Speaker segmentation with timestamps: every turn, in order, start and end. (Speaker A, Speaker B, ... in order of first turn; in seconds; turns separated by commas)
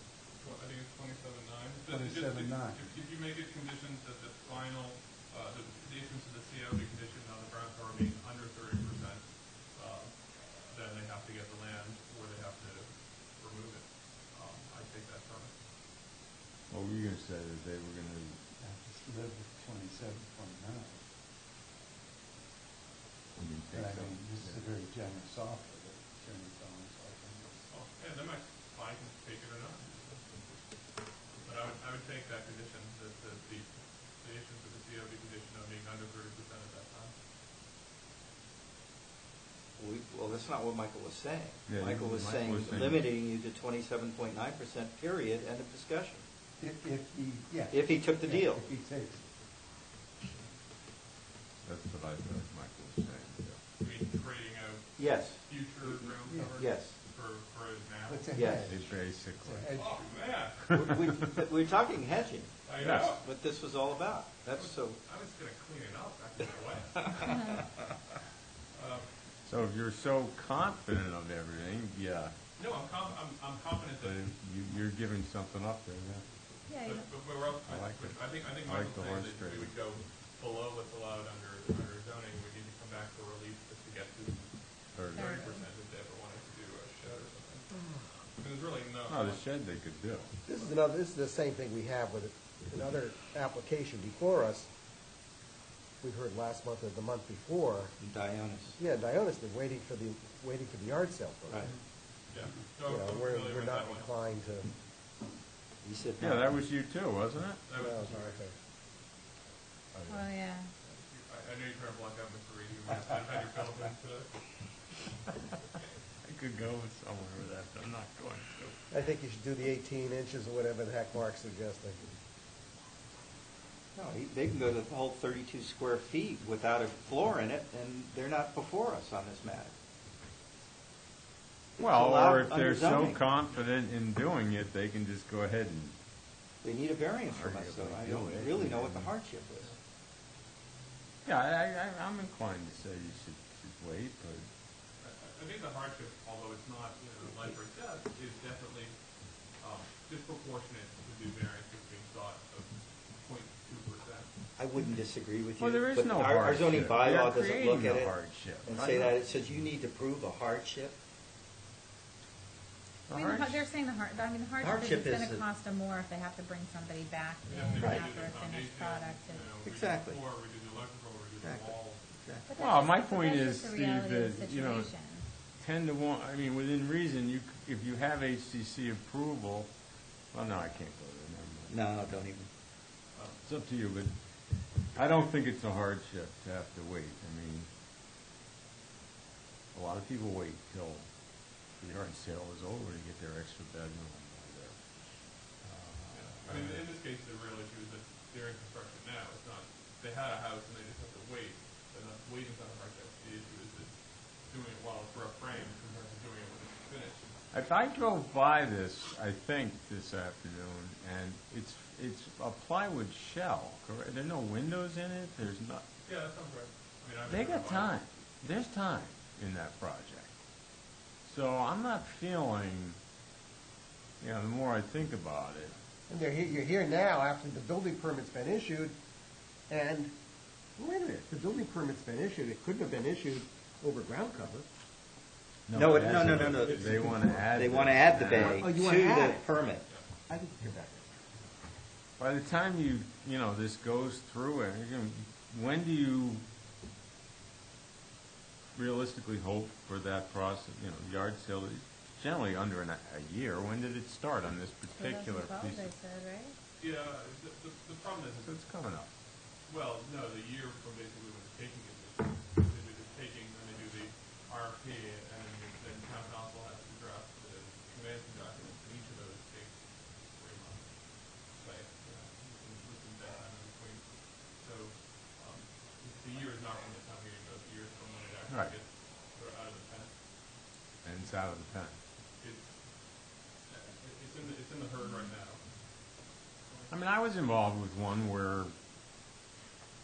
Speaker A: 0.4-15.6, Speaker B: 1.9-2.8, Speaker C: 16.7-18.4, Speaker B: 18.6-21.0, Speaker C: 23.4-24.6, Speaker B: 23.7-27.7, Speaker A: 27.7-30.3, Speaker A: 31.3-37.1, Speaker D: 39.8-46.2, Speaker C: 41.6-43.1, Speaker B: 46.6-49.2, Speaker D: 47.7-48.7, Speaker C: 51.6-53.6, Speaker A: 53.8-58.4, Speaker D: 55.0-56.9, Speaker B: 56.3-56.5, Speaker B: 58.1-58.9, Speaker D: 58.3-58.7, Speaker C: 58.4-59.7, Speaker B: 59.4-59.8, Speaker E: 59.6-60.0, Speaker A: 59.8-60.7, Speaker C: 60.7-61.4, Speaker D: 60.7-62.5, Speaker A: 62.6-63.2, Speaker C: 62.8-63.1, Speaker D: 63.1-65.0, Speaker A: 64.5-67.5, Speaker A: 68.7-69.1, Speaker C: 69.4-72.3, Speaker A: 72.6-74.3, Speaker C: 74.0-76.2, Speaker F: 76.7-77.1, Speaker A: 76.8-87.7, Speaker C: 77.6-79.7, Speaker C: 84.9-85.2, Speaker F: 85.1-85.7, Speaker A: 88.3-89.4, Speaker C: 89.1-90.3, Speaker E: 90.5-94.7, Speaker E: 96.0-98.0, Speaker D: 98.0-98.8, Speaker E: 98.8-101.7, Speaker D: 101.5-101.7, Speaker A: 101.6-104.1, Speaker E: 102.8-104.7, Speaker D: 105.8-106.5, Speaker C: 106.2-107.7, Speaker A: 107.7-108.4, Speaker E: 107.8-108.5, Speaker C: 109.9-110.2, Speaker F: 110.1-110.7, Speaker A: 110.8-114.3, Speaker C: 116.2-118.8, Speaker E: 118.9-122.0, Speaker D: 123.9-129.7, Speaker D: 131.8-133.2, Speaker C: 131.8-135.9, Speaker A: 133.3-133.6, Speaker D: 136.6-139.7, Speaker C: 137.3-139.1, Speaker C: 141.2-144.5, Speaker A: 145.0-149.0, Speaker A: 149.6-154.3, Speaker D: 154.6-161.0, Speaker C: 155.6-159.1, Speaker C: 163.1-163.7, Speaker F: 163.1-169.5, Speaker D: 164.6-165.4, Speaker A: 167.5-172.1, Speaker D: 167.8-168.0, Speaker D: 169.6-170.2, Speaker D: 171.4-172.5, Speaker F: 172.5-175.2, Speaker C: 172.6-174.9, Speaker C: 175.5-179.7, Speaker C: 180.3-181.9, Speaker D: 181.7-182.5, Speaker A: 183.1-183.4, Speaker C: 183.4-187.7, Speaker C: 189.7-191.1, Speaker C: 191.7-194.8, Speaker C: 195.5-196.9, Speaker A: 196.1-207.3, Speaker C: 207.5-215.8, Speaker A: 216.0-218.1, Speaker C: 217.3-220.3, Speaker C: 221.2-223.0, Speaker C: 224.2-225.7, Speaker E: 226.1-229.0, Speaker E: 229.7-230.1, Speaker E: 230.8-234.7, Speaker C: 235.7-238.7, Speaker D: 235.7-239.9, Speaker A: 236.1-237.3, Speaker E: 238.3-239.5, Speaker E: 240.3-241.1, Speaker C: 242.2-246.4, Speaker C: 248.7-255.9, Speaker F: 254.9-256.6, Speaker A: 256.8-258.5, Speaker C: 258.4-259.1, Speaker A: 259.7-280.1, Speaker C: 278.5-278.7, Speaker C: 281.0-282.0, Speaker A: 282.4-282.7, Speaker A: 283.7-285.6, Speaker A: 286.7-286.9, Speaker C: 286.9-288.7